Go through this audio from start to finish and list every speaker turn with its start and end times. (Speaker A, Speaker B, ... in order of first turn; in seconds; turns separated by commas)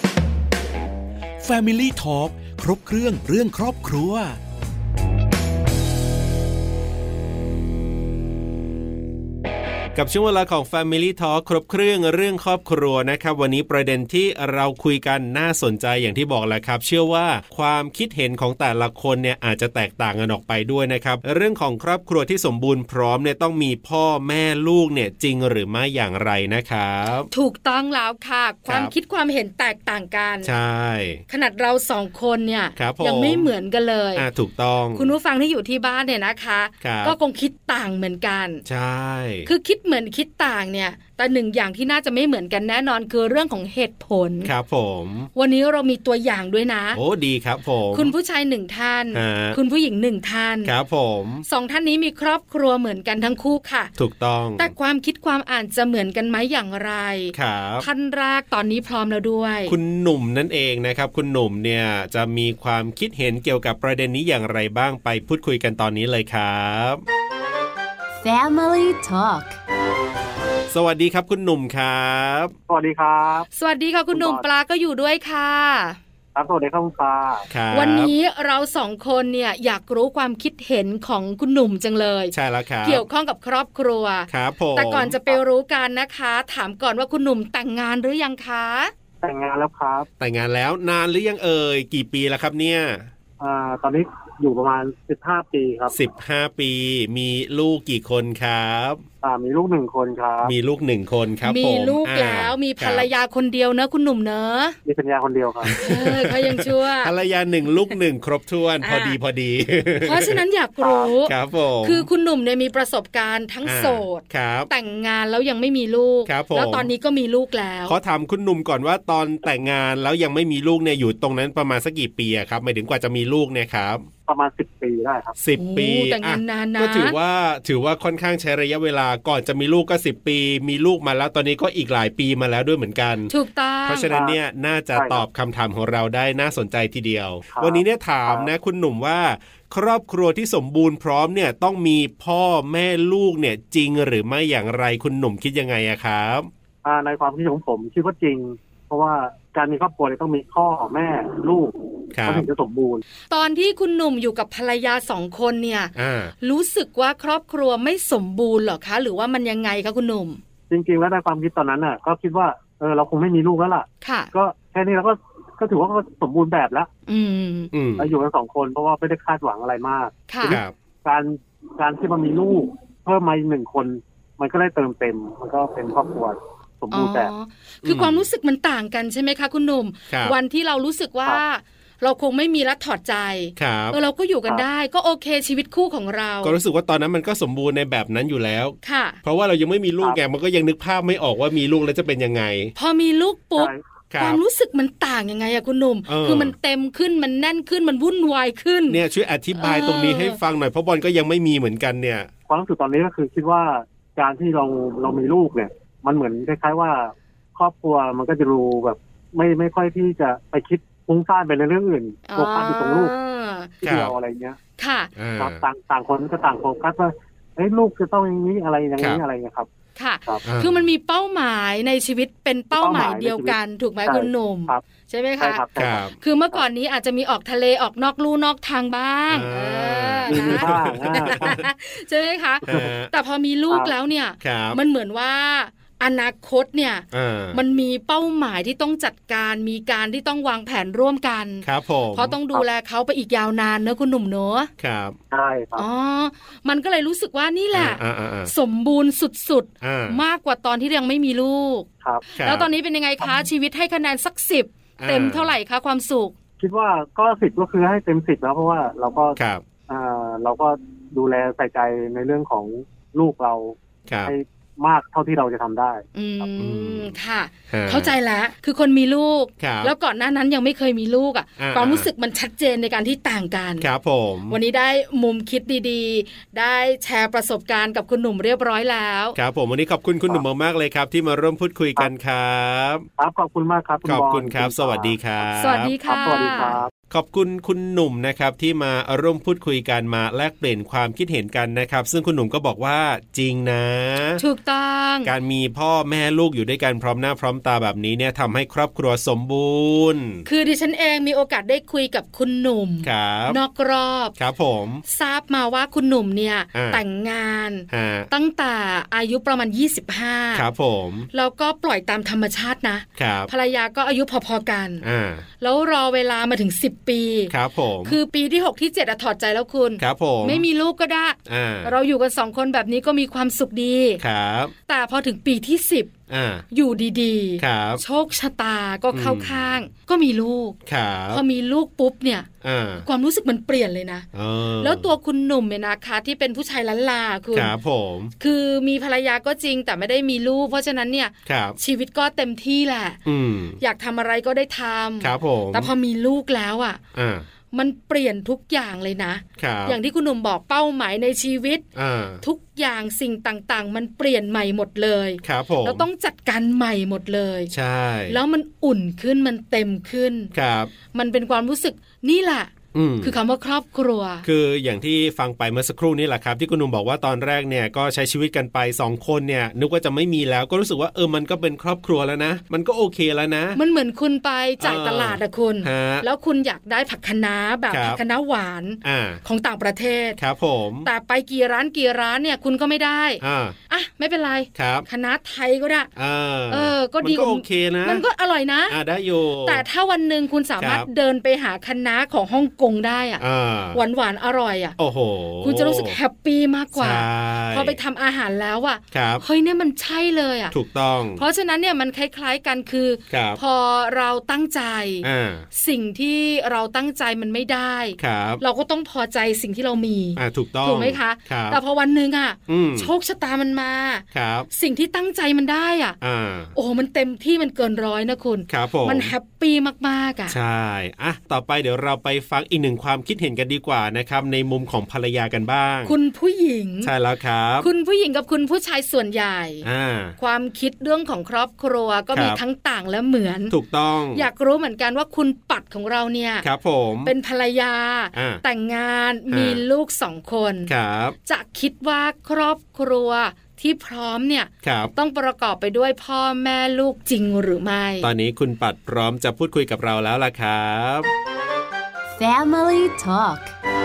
Speaker A: 1.4-4.4, Speaker B: 9.9-27.3, Speaker C: 27.3-30.5, Speaker B: 28.7-28.9, Speaker B: 30.4-31.2, Speaker C: 31.3-34.2, Speaker B: 32.8-33.5, Speaker B: 34.1-35.1, Speaker C: 34.9-38.6, Speaker B: 36.8-37.2, Speaker B: 38.6-39.5, Speaker C: 39.4-44.5, Speaker B: 44.4-45.3, Speaker C: 45.3-47.0, Speaker B: 46.9-48.1, Speaker C: 47.9-50.7, Speaker B: 49.1-49.6, Speaker B: 50.6-51.4, Speaker C: 51.4-53.9, Speaker B: 54.0-54.7, Speaker C: 54.6-59.8, Speaker B: 57.3-57.9, Speaker B: 59.7-67.0, Speaker D: 68.2-69.6, Speaker B: 70.7-72.5, Speaker E: 72.7-73.5, Speaker C: 73.5-76.0, Speaker E: 74.1-74.4, Speaker E: 76.3-77.5, Speaker B: 77.5-78.1, Speaker C: 77.7-88.9, Speaker B: 82.3-83.0, Speaker B: 84.3-85.4, Speaker E: 89.2-90.1, Speaker B: 90.2-93.1, Speaker E: 93.4-96.0, Speaker B: 95.9-99.0, Speaker E: 99.2-100.5, Speaker B: 100.4-103.1, Speaker C: 101.4-104.8, Speaker E: 104.8-105.8, Speaker B: 105.6-110.4, Speaker C: 105.8-107.1, Speaker C: 108.8-109.2, Speaker C: 110.0-118.0, Speaker E: 110.8-111.1, Speaker B: 111.2-112.1, Speaker B: 113.6-114.7, Speaker B: 116.2-116.9, Speaker B: 117.9-124.1, Speaker E: 124.3-125.3, Speaker B: 125.4-133.3, Speaker C: 125.6-127.2, Speaker C: 133.3-134.1, Speaker B: 133.8-146.5, Speaker E: 134.1-134.4, Speaker E: 134.9-135.2, Speaker E: 137.5-138.5, Speaker E: 146.8-153.0, Speaker B: 152.1-152.5, Speaker C: 153.3-160.4, Speaker B: 155.9-156.3, Speaker E: 160.7-166.9, Speaker C: 164.0-164.3, Speaker C: 167.1-167.7, Speaker B: 167.7-168.1, Speaker E: 168.0-177.3, Speaker C: 170.3-170.6, Speaker B: 170.4-170.7, Speaker C: 176.9-186.6, Speaker B: 177.8-178.2, Speaker B: 180.1-180.3, Speaker B: 183.6-184.0, Speaker B: 186.4-192.7, Speaker C: 188.8-189.2, Speaker C: 192.7-199.0, Speaker B: 194.1-194.4, Speaker B: 196.1-196.5, Speaker B: 198.9-202.3, Speaker C: 199.6-200.4, Speaker E: 202.5-213.1, Speaker C: 212.3-213.7, Speaker B: 213.8-214.1, Speaker E: 213.8-214.6, Speaker C: 214.8-215.1, Speaker B: 215.2-215.6, Speaker E: 215.4-219.7, Speaker C: 219.9-244.7, Speaker B: 220.4-220.8, Speaker E: 222.7-224.8, Speaker E: 225.4-226.6, Speaker B: 225.8-226.1, Speaker B: 229.3-231.6, Speaker E: 230.3-231.6, Speaker B: 232.6-233.1, Speaker E: 232.7-232.9, Speaker B: 234.4-234.8, Speaker B: 237.1-237.6, Speaker B: 241.6-242.4, Speaker B: 244.8-245.2, Speaker E: 245.3-245.8, Speaker C: 245.8-256.3, Speaker B: 247.7-248.5, Speaker B: 249.8-250.2, Speaker B: 252.3-252.7, Speaker B: 255.0-255.5, Speaker E: 256.6-259.4, Speaker B: 259.4-259.6, Speaker E: 259.9-266.5, Speaker B: 264.1-264.3, Speaker C: 266.1-273.9, Speaker B: 266.6-267.1, Speaker B: 267.7-268.1, Speaker B: 269.6-269.9, Speaker B: 271.6-272.1, Speaker B: 273.8-274.6, Speaker C: 274.5-279.4, Speaker B: 279.3-283.1, Speaker E: 283.2-285.2, Speaker B: 284.0-285.9, Speaker C: 285.6-286.8, Speaker E: 286.0-286.9, Speaker B: 287.1-294.4, Speaker C: 294.4-295.3, Speaker B: 295.2-300.4, Speaker C: 300.4-304.3, Speaker B: 303.0-303.6, Speaker B: 304.4-305.0, Speaker C: 305.1-310.6, Speaker B: 306.7-307.0, Speaker B: 307.9-308.3, Speaker B: 310.5-311.3, Speaker C: 311.3-315.0, Speaker B: 313.2-313.5, Speaker B: 315.0-315.4, Speaker C: 315.6-317.5, Speaker B: 317.5-318.2, Speaker C: 318.0-324.2, Speaker B: 320.0-320.6, Speaker B: 321.4-321.9, Speaker B: 324.2-324.7, Speaker C: 324.9-326.1, Speaker B: 326.3-326.6, Speaker C: 326.7-330.8, Speaker B: 327.6-328.0, Speaker B: 329.1-329.7, Speaker B: 330.9-331.4, Speaker C: 331.3-332.5, Speaker B: 332.6-333.1, Speaker C: 333.0-334.3, Speaker B: 334.3-335.1, Speaker C: 334.8-337.7, Speaker B: 337.5-338.3, Speaker C: 338.4-343.2, Speaker B: 341.4-341.8, Speaker B: 343.2-343.8, Speaker C: 343.8-347.0, Speaker B: 345.2-345.9, Speaker B: 347.1-347.4, Speaker C: 347.7-351.8, Speaker B: 349.6-350.0, Speaker B: 351.9-352.4, Speaker C: 352.4-357.7, Speaker B: 355.4-356.1, Speaker B: 357.7-358.4, Speaker C: 358.3-360.5, Speaker B: 360.5-360.9, Speaker C: 361.1-364.4, Speaker B: 362.9-363.4, Speaker B: 364.4-373.8, Speaker C: 373.7-380.4, Speaker B: 374.8-376.2, Speaker B: 377.9-378.2, Speaker B: 379.0-379.4, Speaker B: 380.4-381.1, Speaker C: 381.0-386.1, Speaker B: 383.4-383.8, Speaker B: 384.7-385.1, Speaker B: 386.1-388.2, Speaker C: 386.7-389.0, Speaker B: 388.9-389.8, Speaker C: 389.6-394.9, Speaker B: 390.8-391.1, Speaker B: 393.4-394.0, Speaker B: 395.0-396.2, Speaker C: 395.6-400.7, Speaker B: 396.9-398.0, Speaker B: 399.1-399.4, Speaker B: 400.7-401.4, Speaker C: 401.4-416.2, Speaker B: 403.3-403.6, Speaker B: 405.2-405.6, Speaker B: 408.2-408.6, Speaker B: 410.4-411.8, Speaker B: 412.7-413.1, Speaker B: 414.3-414.7, Speaker B: 416.2-416.7, Speaker C: 416.7-420.6, Speaker B: 418.7-419.3, Speaker B: 420.5-426.1, Speaker C: 426.0-427.1, Speaker B: 427.0-427.9, Speaker C: 427.8-429.9, Speaker B: 429.8-430.4, Speaker C: 430.4-433.7, Speaker B: 432.3-432.6, Speaker B: 433.7-434.5, Speaker C: 434.3-436.7, Speaker B: 436.6-437.3, Speaker C: 437.2-440.9, Speaker B: 438.3-438.6, Speaker B: 439.5-439.8, Speaker B: 440.9-441.4, Speaker C: 441.4-448.3, Speaker B: 444.8-445.1, Speaker B: 448.2-451.3, Speaker D: 452.4-453.7